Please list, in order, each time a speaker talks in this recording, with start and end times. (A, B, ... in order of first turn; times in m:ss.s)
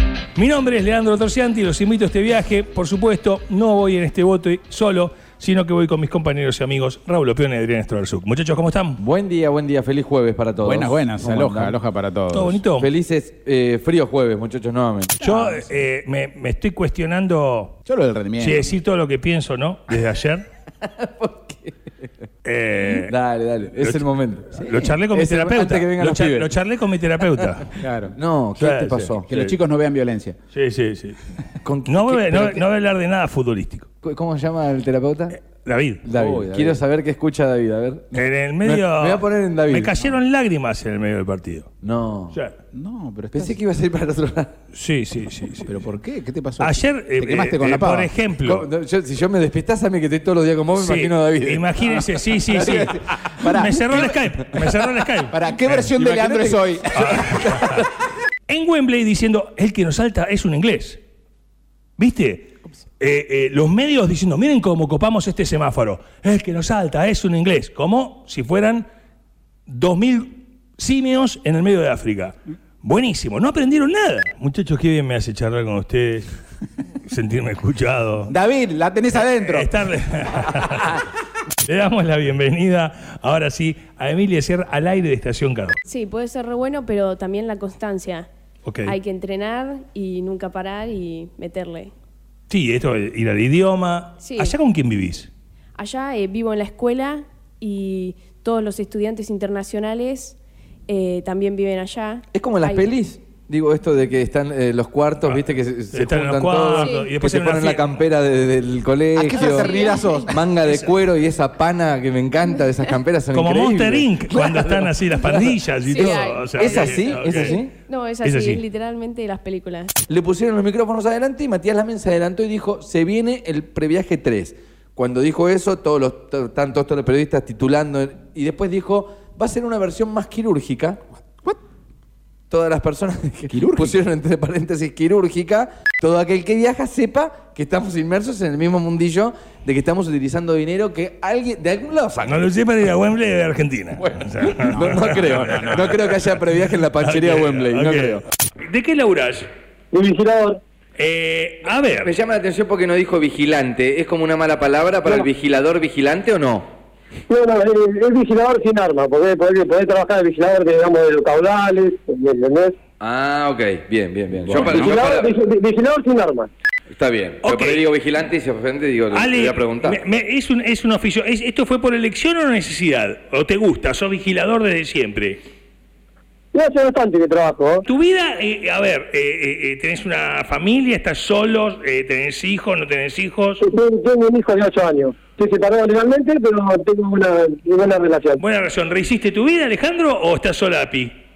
0:00.4-0:09.0 A
0:09.0-0:11.7 B
0:10.6-0:12.6 C
0:12.3-0:12.9 A
0:12.8-0:15.3 B
0:15.2-0:17.8 A
0:15.2-0:15.6 C
0:17.8-0:18.7 C
0:18.4-0:20.4 A
0:20.8-0:21.8 B
0:22.4-0:23.2 A
0:22.8-0:24.5 B
0:23.7-0:27.8 A
0:24.6-0:25.0 C
0:25.1-0:26.5 B
0:27.8-0:28.2 C
0:28.1-0:29.3 B
0:28.6-0:29.5 A
0:29.3-0:30.4 C
0:30.5-0:31.3 A
0:31.6-0:32.6 B
0:31.8-0:33.9 A
0:34.0-0:35.4 B
0:35.3-0:36.0 A
0:36.0-0:40.1 B
0:36.1-0:36.8 C
0:38.1-0:41.7 A
0:41.8-0:42.4 B
0:42.7-0:43.6 C
0:43.3-0:44.6 B
0:44.7-0:45.8 A
0:45.6-0:48.1 C
0:46.6-0:48.7 A
0:48.4-0:52.1 B
0:50.7-0:55.3 A
0:52.5-0:54.2 C
0:52.6-0:52.9 B
0:55.3-0:57.5 C
0:55.7-0:57.3 B
0:56.9-0:57.8 A
0:58.5-1:01.0 A
1:02.0-1:08.8 A
1:09.7-1:16.4 A
1:17.0-1:18.3 A
1:18.3-1:19.7 C
1:19.1-1:21.0 A
1:20.5-1:20.9 C
1:21.6-1:25.8 A
1:25.8-1:28.3 D
1:28.6-1:29.0 A
1:28.8-1:31.9 D
1:32.5-1:35.3 A
1:34.2-1:34.6 D
1:35.8-1:42.9 D
1:42.3-1:57.7 B
1:45.2-1:48.0 A
1:46.7-1:47.1 D
1:49.2-1:50.8 C
1:49.3-1:50.3 D
1:53.3-1:57.6 A
1:55.9-1:59.9 D
1:58.2-1:58.6 A
2:00.1-2:11.0 B
2:12.5-2:22.4 B
2:13.5-2:14.0 C
2:22.2-2:25.8 A
2:24.4-2:28.2 B
2:24.6-2:26.2 C
2:26.9-2:29.5 A
2:27.8-2:28.2 C
2:29.9-2:30.6 E
2:31.0-2:32.1 A
2:32.0-2:36.7 B
2:37.3-2:42.7 E
2:43.0-2:45.4 B
2:44.3-2:44.9 C
2:44.7-2:46.5 E
2:46.9-2:50.0 B
2:47.4-2:47.8 A
2:49.1-2:55.4 A
2:56.5-2:57.8 E
2:57.8-3:03.6 A
3:03.6-3:08.4 E
3:08.4-3:11.1 A